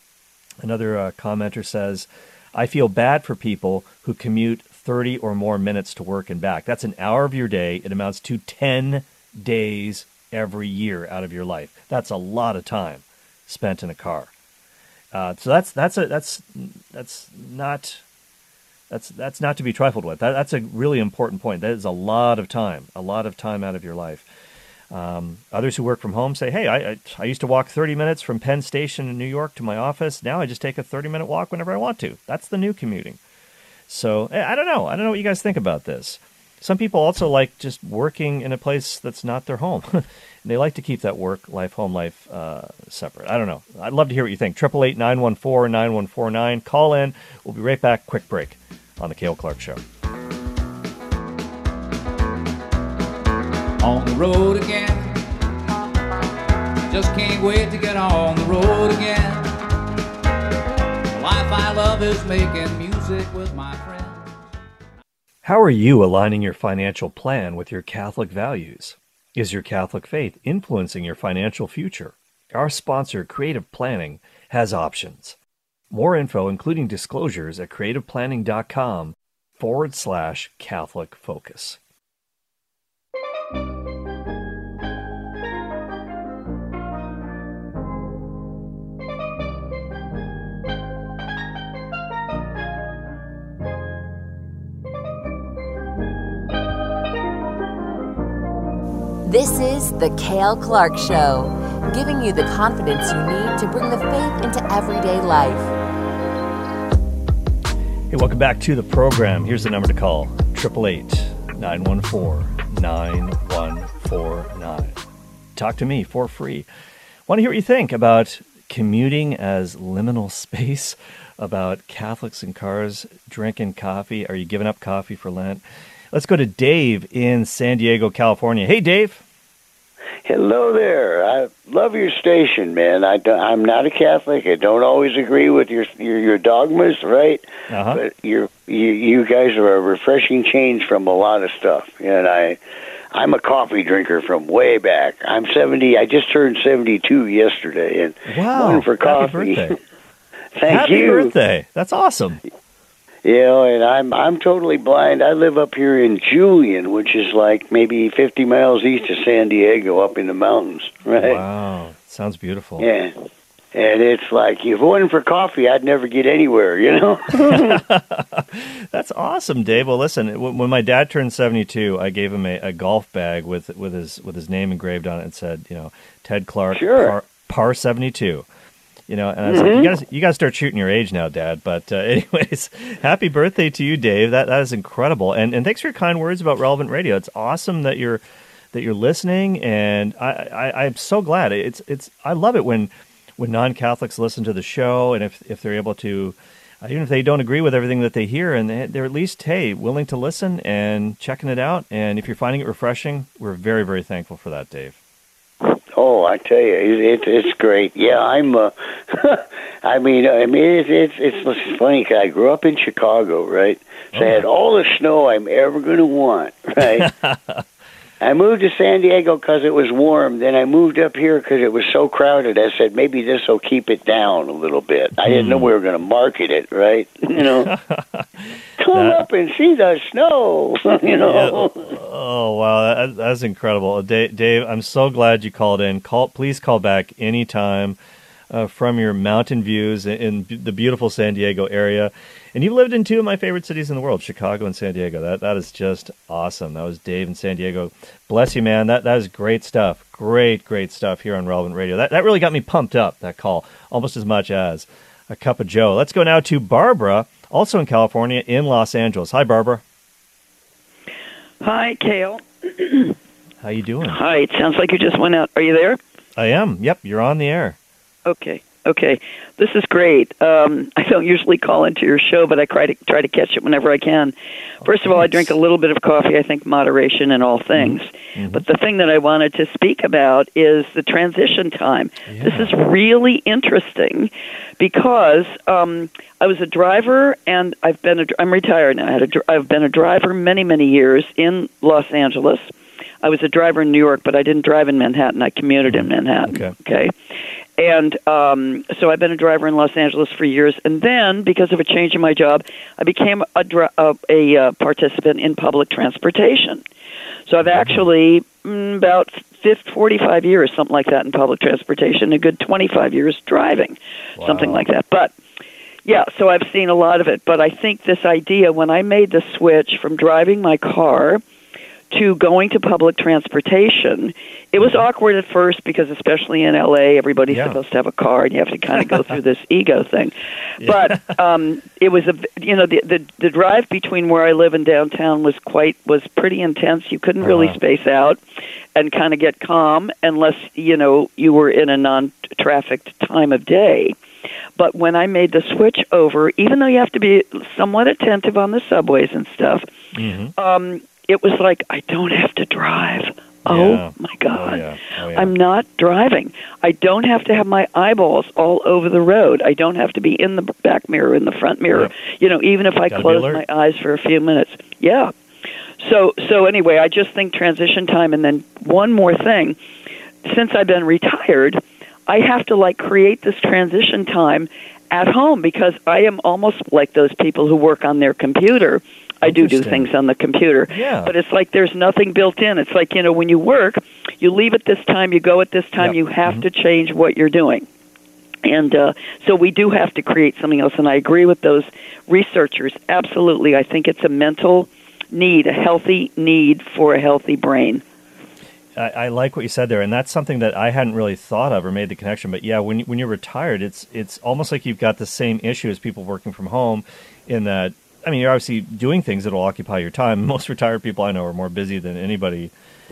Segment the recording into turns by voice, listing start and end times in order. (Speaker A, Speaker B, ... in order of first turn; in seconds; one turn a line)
Speaker A: 0.6-14.3
Speaker A: 15.1-18.0
Speaker A: 18.9-24.3
Speaker A: 24.9-33.2
Speaker A: 33.9-49.8
Speaker B: 53.8-55.2
Speaker B: 56.9-59.5
Speaker B: 61.1-64.3
Speaker A: 65.4-75.3
Speaker A: 75.9-81.8
Speaker C: 99.2-105.7
Speaker A: 108.1-115.0
Speaker A: 115.5-116.7
Speaker A: 117.3-129.2
Speaker D: 130.2-142.6
Speaker A: 137.7-138.0
Speaker D: 143.1-149.8
Speaker A: 148.3-149.8
Speaker D: 150.6-151.3
Speaker A: 150.7-152.4
Speaker D: 153.2-161.4
Speaker A: 161.2-162.9
Speaker D: 162.8-163.1
Speaker D: 163.7-167.8
Speaker A: 167.5-178.4
Speaker D: 176.7-177.2
Speaker A: 179.1-188.2
Speaker D: 179.4-179.9
Speaker A: 188.7-205.0
Speaker D: 205.9-217.1
Speaker A: 214.1-214.4
Speaker A: 217.0-217.6
Speaker D: 218.2-227.7
Speaker A: 225.2-225.7
Speaker A: 227.4-228.2
Speaker D: 228.8-231.9
Speaker A: 228.9-229.2
Speaker A: 231.2-238.0
Speaker A: 238.5-259.8
Speaker E: 261.6-263.1
Speaker A: 263.6-264.2
Speaker E: 264.0-266.0
Speaker A: 266.4-267.8
Speaker E: 268.2-292.7
Speaker A: 274.8-275.5
Speaker A: 277.7-278.6
Speaker A: 282.3-282.8
Speaker E: 293.2-297.1
Speaker A: 295.8-296.7
Speaker E: 297.8-306.8
Speaker E: 307.5-315.3
Speaker A: 307.6-308.1
Speaker A: 314.4-314.9
Speaker E: 316.0-321.4
Speaker E: 322.1-338.4
Speaker A: 324.8-325.0
Speaker A: 327.5-327.8
Speaker A: 330.8-331.2
Speaker A: 337.4-337.8
Speaker E: 338.9-344.1
Speaker E: 344.8-349.9
Speaker A: 350.1-350.5
Speaker E: 350.6-365.3
Speaker A: 353.6-355.5
Speaker A: 363.1-363.6
Speaker E: 366.0-369.8
Speaker E: 370.4-387.9
Speaker A: 379.4-380.1
Speaker A: 380.9-381.3
Speaker A: 386.0-386.6
Speaker E: 388.6-398.0
Speaker A: 399.0-412.7